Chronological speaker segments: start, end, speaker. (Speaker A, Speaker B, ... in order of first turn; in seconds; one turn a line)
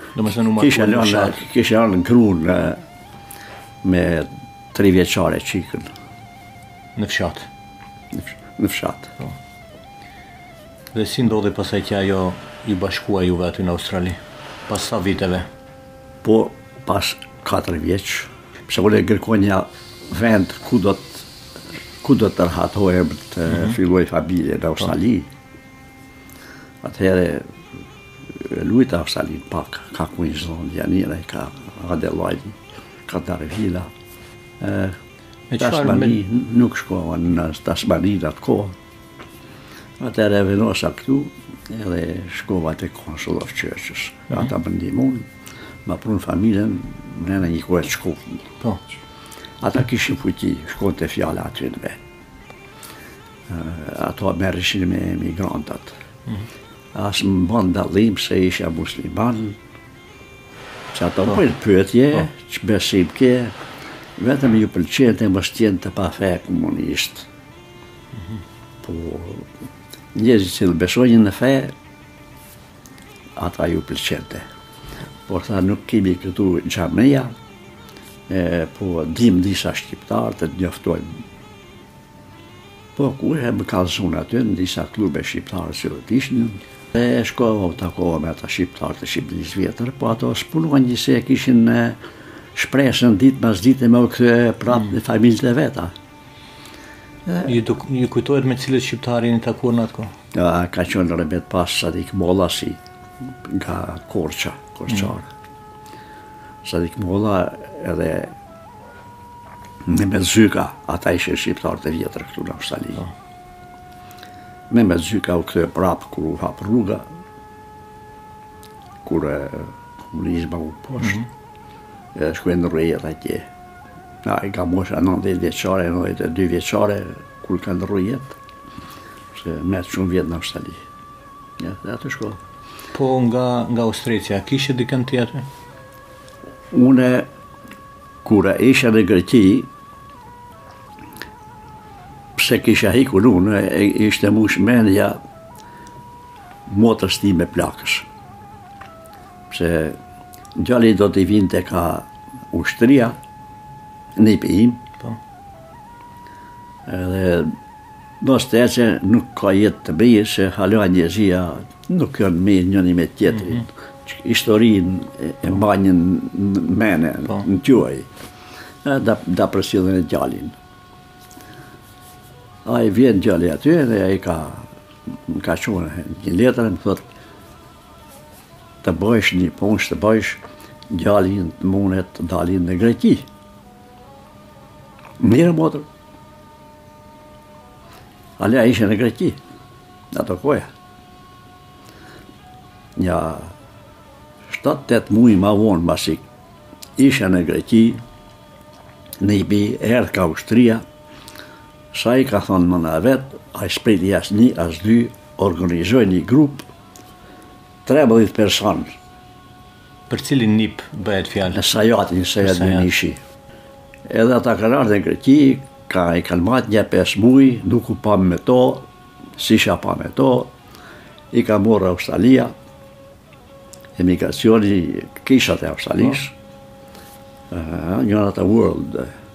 Speaker A: 0.2-1.4
Speaker B: 0.6-2.8
Speaker B: 3.8-5.9
Speaker A: 7.0-7.5
Speaker B: 8.1-9.1
Speaker A: 10.9-15.5
Speaker B: 16.2-21.3
Speaker B: 22.0-25.3
Speaker B: 26.8-27.5
Speaker B: 28.3-33.9
Speaker B: 34.6-35.0
Speaker A: 35.5-36.2
Speaker B: 35.6-38.8
Speaker B: 40.0-45.3
Speaker B: 45.9-48.5
Speaker B: 49.6-52.0
Speaker B: 53.5-55.9
Speaker B: 56.9-59.6
Speaker B: 60.9-63.5
Speaker B: 64.2-67.3
Speaker B: 68.8-69.5
Speaker B: 70.2-71.7
Speaker B: 73.4-74.5
Speaker B: 75.3-77.3
Speaker B: 78.3-81.2
Speaker B: 83.0-92.0
Speaker B: 92.5-95.9
Speaker A: 97.4-100.1
Speaker B: 100.3-102.8
Speaker B: 103.4-105.3
Speaker B: 106.7-108.3
Speaker B: 109.8-113.0
Speaker B: 114.7-117.1
Speaker B: 119.0-121.2
Speaker B: 122.2-123.5
Speaker B: 124.2-128.4
Speaker B: 129.3-130.8
Speaker B: 131.6-132.4
Speaker A: 132.9-135.5
Speaker B: 136.7-137.3
Speaker B: 138.2-139.7
Speaker B: 142.4-145.2
Speaker B: 146.7-148.1
Speaker B: 149.5-150.0
Speaker B: 150.6-153.2
Speaker B: 154.2-154.8
Speaker B: 156.9-157.5
Speaker B: 158.2-168.1
Speaker B: 168.8-170.6
Speaker B: 172.7-177.1
Speaker B: 178.8-183.3
Speaker B: 185.2-185.9
Speaker B: 188.4-189.4
Speaker B: 190.1-190.7
Speaker B: 193.0-193.5
Speaker B: 194.5-196.2
Speaker B: 197.0-198.0
Speaker B: 199.2-200.8
Speaker B: 201.9-206.7
Speaker B: 207.9-208.9
Speaker A: 210.1-211.6
Speaker B: 211.5-213.2
Speaker A: 212.4-212.9
Speaker B: 214.1-220.5
Speaker B: 221.3-222.6
Speaker B: 224.0-226.3
Speaker B: 227.5-229.1